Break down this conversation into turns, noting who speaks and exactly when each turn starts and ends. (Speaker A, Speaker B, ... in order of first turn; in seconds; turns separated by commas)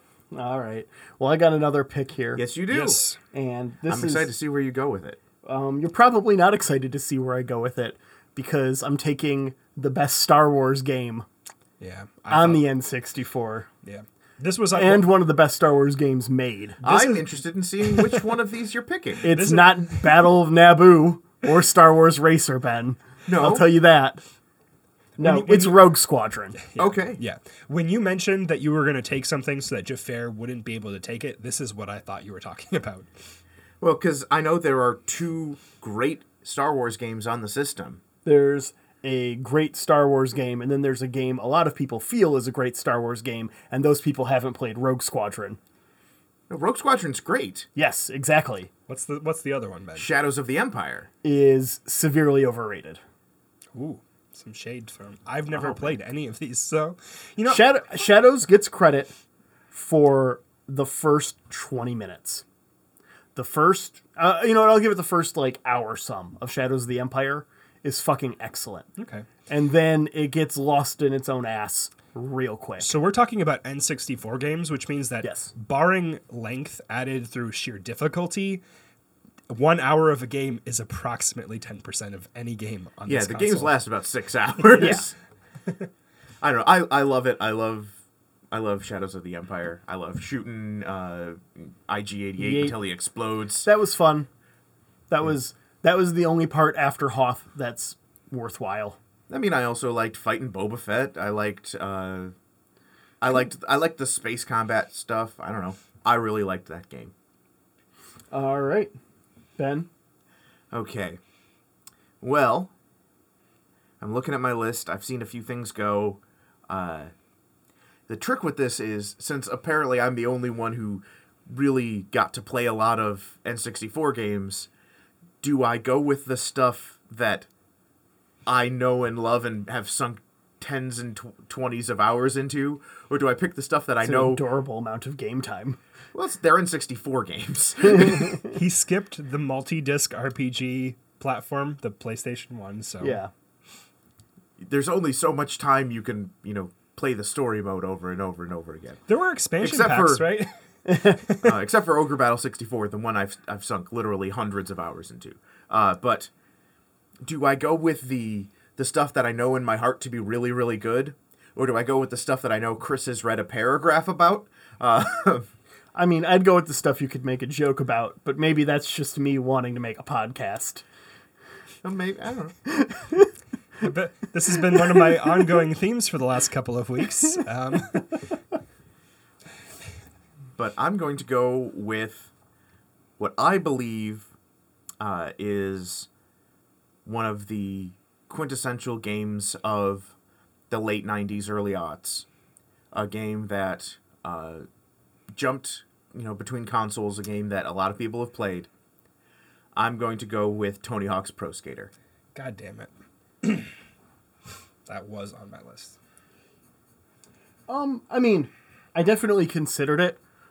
Speaker A: 0.3-2.4, Speaker B: 2.3-3.0, Speaker C: 2.7-3.2, Speaker A: 3.3-4.3, Speaker B: 3.9-5.2, Speaker A: 5.4-11.2, Speaker C: 11.8-12.7, Speaker A: 12.3-13.7, Speaker C: 13.8-15.2, Speaker A: 14.7-16.8, Speaker C: 16.8-18.2, Speaker B: 16.8-19.3, Speaker A: 19.2-24.2, Speaker C: 19.2-20.3, Speaker B: 23.2-23.7, Speaker C: 25.2-25.9, Speaker A: 25.2-26.6, Speaker C: 26.6-33.1, Speaker B: 26.8-27.2, Speaker B: 33.8-38.0, Speaker A: 38.2-45.6, Speaker B: 46.5-47.7, Speaker A: 47.7-48.7, Speaker C: 48.9-50.1, Speaker B: 50.0-51.1, Speaker A: 51.2-53.0, Speaker C: 53.7-57.7, Speaker A: 57.5-59.1, Speaker A: 59.7-62.4, Speaker A: 63.3-68.9, Speaker C: 69.0-69.2, Speaker A: 69.5-72.9, Speaker C: 72.8-78.6, Speaker A: 75.2-75.5, Speaker C: 79.5-83.8, Speaker B: 83.0-85.1, Speaker A: 84.8-85.0, Speaker B: 86.4-87.9, Speaker B: 88.5-93.7, Speaker A: 92.4-92.7, Speaker A: 93.6-94.3, Speaker A: 95.1-99.0, Speaker B: 99.3-102.3, Speaker B: 103.2-107.1, Speaker A: 108.3-108.9, Speaker A: 109.6-109.9, Speaker B: 110.7-111.2, Speaker B: 112.2-112.7, Speaker B: 114.0-117.1, Speaker B: 118.1-124.7, Speaker B: 125.4-127.5, Speaker B: 128.4-134.4, Speaker A: 134.0-135.8, Speaker B: 136.1-138.4, Speaker C: 138.5-143.2, Speaker A: 143.0-143.3, Speaker B: 144.6-149.0, Speaker C: 149.1-151.5, Speaker B: 149.6-150.3, Speaker A: 150.9-151.2, Speaker B: 151.4-156.3, Speaker B: 157.2-165.4, Speaker A: 165.9-170.8, Speaker B: 171.8-172.6, Speaker A: 172.7-173.3, Speaker C: 173.8-178.2, Speaker B: 180.6-182.3, Speaker B: 183.2-184.3, Speaker B: 185.0-186.1, Speaker B: 187.0-190.1, Speaker B: 190.7-192.2, Speaker B: 192.9-194.7, Speaker B: 195.3-198.7, Speaker B: 199.7-201.9, Speaker C: 202.3-202.9, Speaker C: 203.4-203.7, Speaker C: 204.8-205.9, Speaker A: 207.7-210.2